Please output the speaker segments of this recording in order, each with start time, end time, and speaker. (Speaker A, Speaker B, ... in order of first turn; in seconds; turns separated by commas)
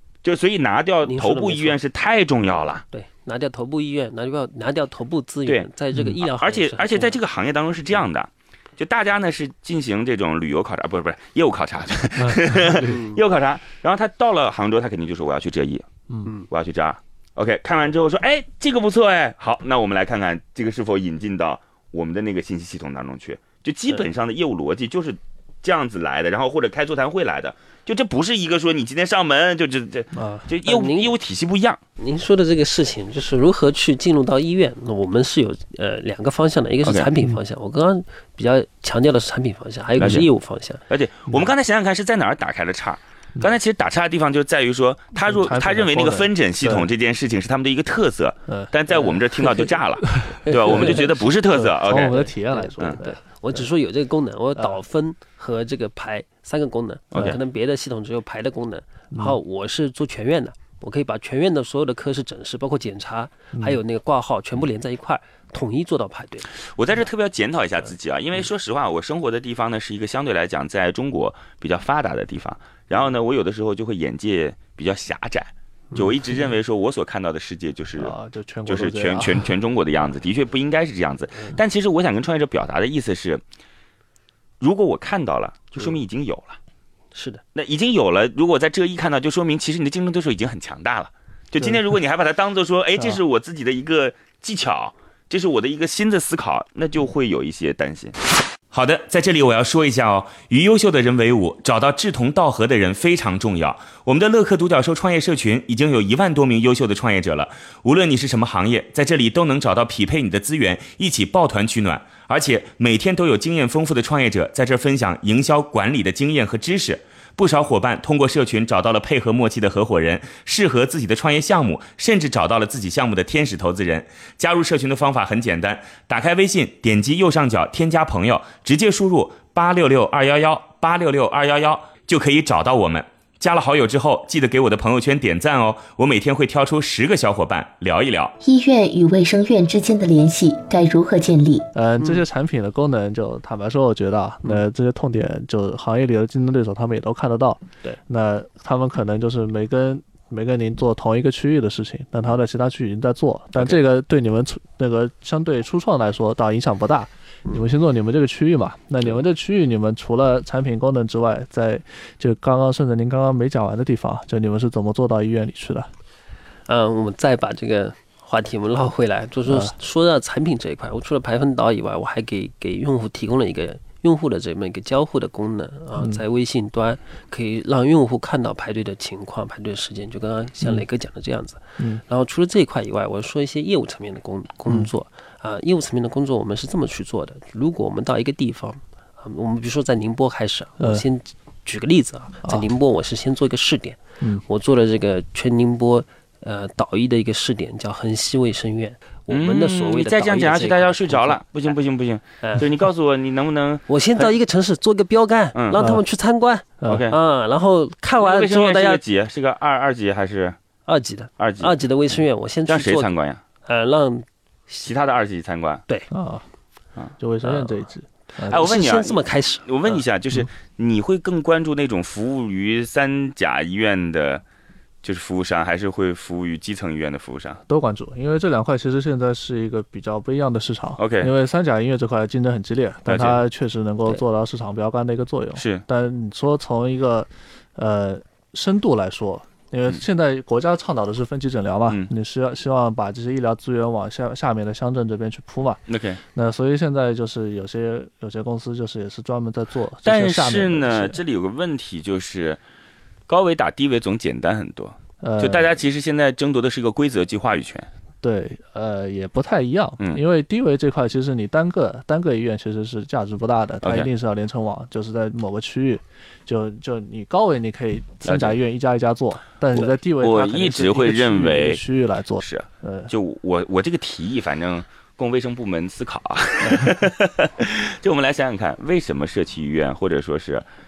Speaker A: 0.2-2.8, Speaker B: 1.0-1.8, Speaker B: 2.9-7.2, Speaker C: 5.9-6.2, Speaker A: 6.2-15.9, Speaker C: 12.2-12.8, Speaker B: 12.8-13.2, Speaker A: 16.5-31.8, Speaker C: 30.1-30.5, Speaker B: 30.6-31.1, Speaker B: 32.0-40.8, Speaker A: 36.8-37.1, Speaker A: 40.0-40.3, Speaker A: 40.9-52.1, Speaker C: 45.2-46.9, Speaker C: 50.1-53.6, Speaker B: 50.5-51.3, Speaker B: 51.8-66.5, Speaker A: 57.1-57.4, Speaker C: 59.1-59.4, Speaker C: 63.5-63.8, Speaker A: 66.6-78.1, Speaker C: 78.0-79.5, Speaker A: 78.7-83.4, Speaker A: 84.6-86.6, Speaker B: 87.1-87.4, Speaker A: 87.5-98.2, Speaker D: 98.7-138.3, Speaker E: 138.4-141.7, Speaker C: 141.7-165.9, Speaker B: 166.7-201.4, Speaker C: 169.5-169.7, Speaker C: 176.0-176.2, Speaker C: 181.8-182.0, Speaker C: 190.8-191.0, Speaker A: 199.3-204.3, Speaker B: 203.9-209.0, Speaker A: 205.5-205.8, Speaker A: 206.9-207.2, Speaker A: 208.2-210.6, Speaker B: 210.9-213.1, Speaker A: 211.4-211.8, Speaker A: 212.7-213.4, Speaker B: 213.7-214.8, Speaker A: 214.8-215.8, Speaker C: 216.1-216.4, Speaker C: 217.2-218.6, Speaker B: 217.4-217.7, Speaker B: 218.4-219.7, Speaker A: 218.5-224.4, Speaker A: 225.0-227.6, Speaker C: 227.7-245.8, Speaker A: 231.0-231.3, Speaker A: 233.1-233.4, Speaker A: 235.6-235.8, Speaker A: 245.9-246.2, Speaker C: 246.3-251.2, Speaker A: 250.1-252.6, Speaker A: 253.3-257.9, Speaker C: 255.2-255.7, Speaker C: 258.2-273.1, Speaker A: 263.8-264.1, Speaker A: 268.2-268.6, Speaker A: 269.8-271.8, Speaker A: 272.4-280.7